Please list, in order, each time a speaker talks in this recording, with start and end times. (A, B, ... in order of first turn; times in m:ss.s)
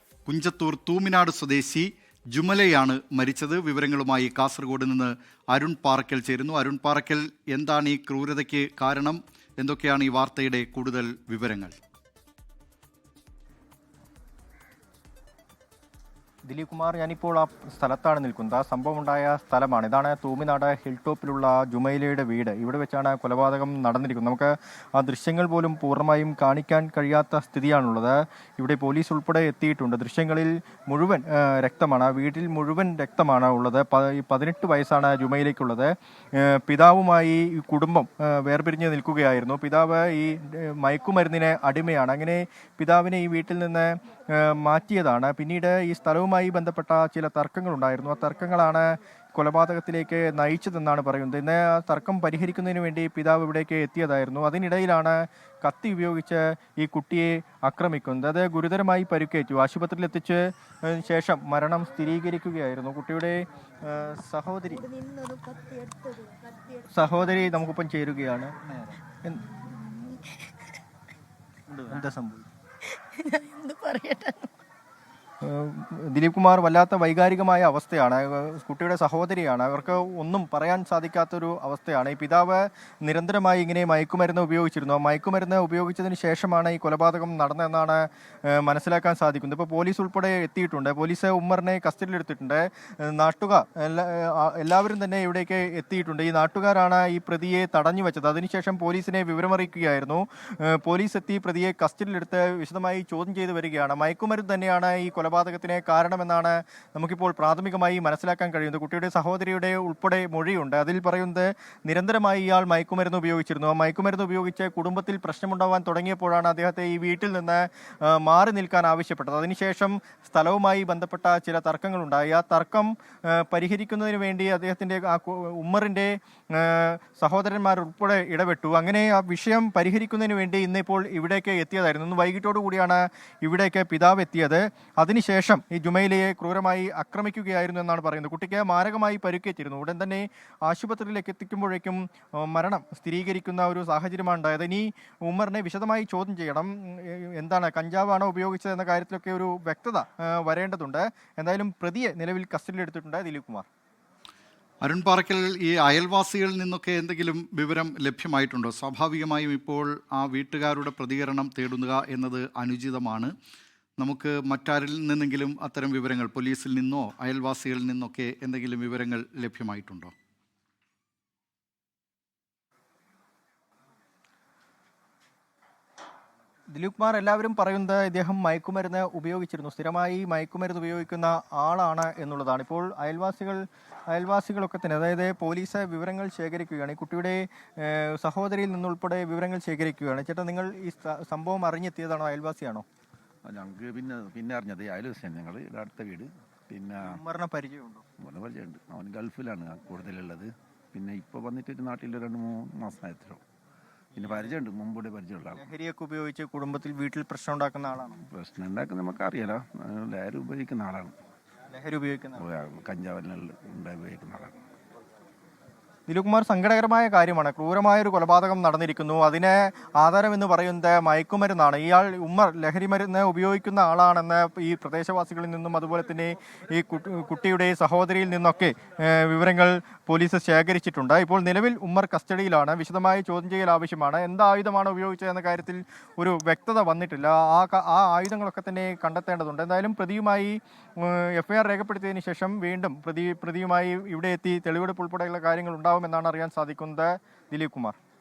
0:00.3-0:11.8 A
0:16.5-1:04.8 B
1:04.8-1:06.9 C
1:06.9-1:08.5 B
1:09.7-1:10.5 C
1:11.8-1:12.5 B
1:12.9-1:14.5 C
1:15.4-2:33.7 B
2:34.8-2:43.3 A
2:44.0-2:50.1 A
2:56.7-3:12.8 B
3:13.5-3:17.2 D
3:17.0-3:18.0 B
3:18.2-3:23.4 D
3:24.2-3:25.6 D
3:25.6-3:28.2 B
3:28.2-3:31.2 D
3:31.7-3:32.4 B
3:32.4-3:34.6 D
3:36.1-4:08.0 B